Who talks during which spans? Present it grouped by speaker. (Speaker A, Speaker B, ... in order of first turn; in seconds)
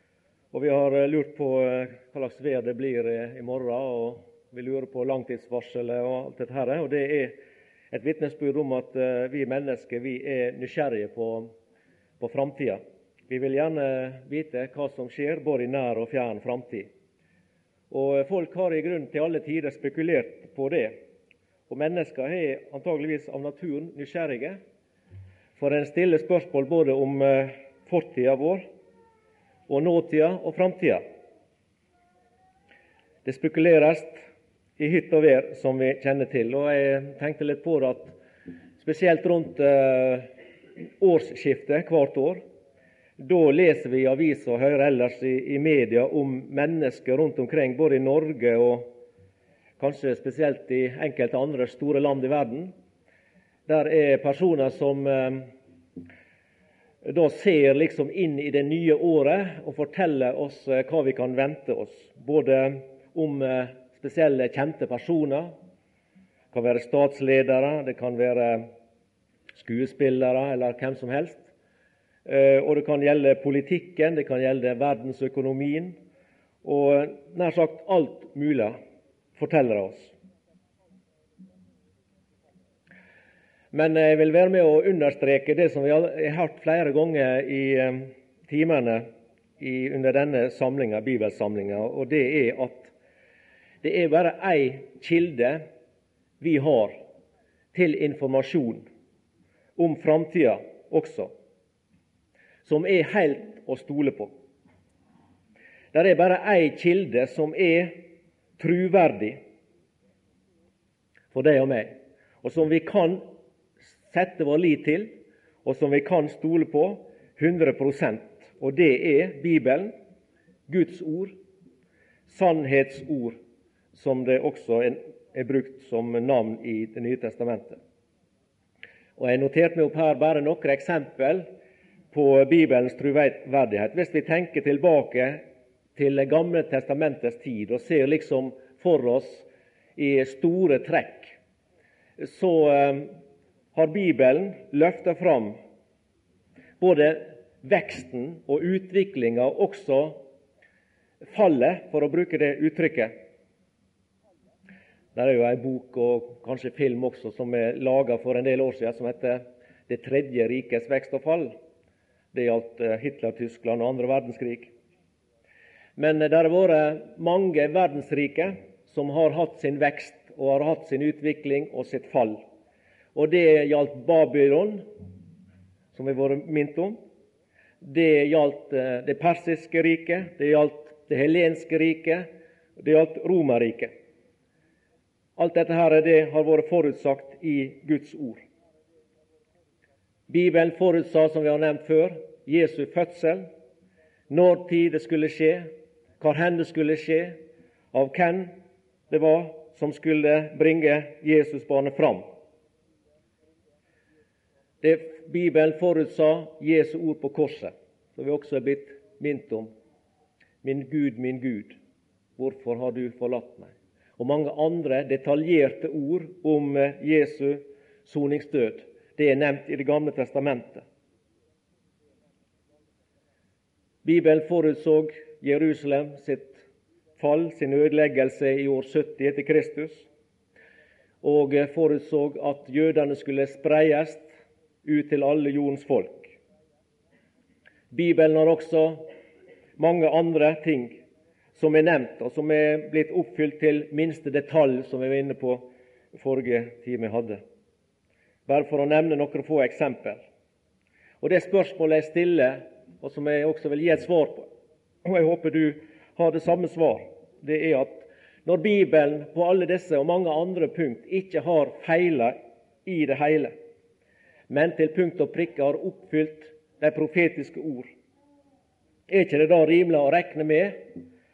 Speaker A: 0.5-7.4, 7.9-11.5, 12.2-16.9, 17.9-20.9, 21.7-24.6, 25.6-28.6, 29.7-31.0, 33.2-34.2, 34.8-38.2, 38.8-40.3, 41.0-42.4, 43.2-48.9, 49.8-52.7, 53.7-55.5, 57.0-65.5, 66.5-68.7, 69.5-71.5, 72.3-76.0, 76.6-78.8, 79.4-80.1, 83.7-89.1, 89.6-92.9, 93.8-95.6, 96.4-97.0, 97.7-98.9, 99.8-101.3, 102.7-104.3, 105.9-108.0, 108.6-109.4, 111.3-113.3, 114.1-119.9, 120.7-121.3, 122.3-123.4, 123.9-127.8, 129.2-131.5, 132.1-135.4, 136.0-141.3, 142.2-143.1, 143.7-145.6, 146.8-150.2, 151.2-153.1, 155.2-161.6, 162.3-164.7, 166.0-172.4, 173.2-174.9, 175.9-177.0, 177.8-182.3, 182.8-183.9, 185.4-188.4, 190.3-193.5, 194.3-197.4, 197.9-198.5, 199.1-202.2, 204.8-209.7, 210.6-211.8, 212.4-220.8, 224.0-226.6, 227.2-230.1, 231.2-234.3, 234.8-236.3, 237.9-239.1, 239.8-241.0, 241.6-247.4, 248.5-250.2, 251.2-254.5, 255.1-263.5, 264.5-267.9, 269.1-271.0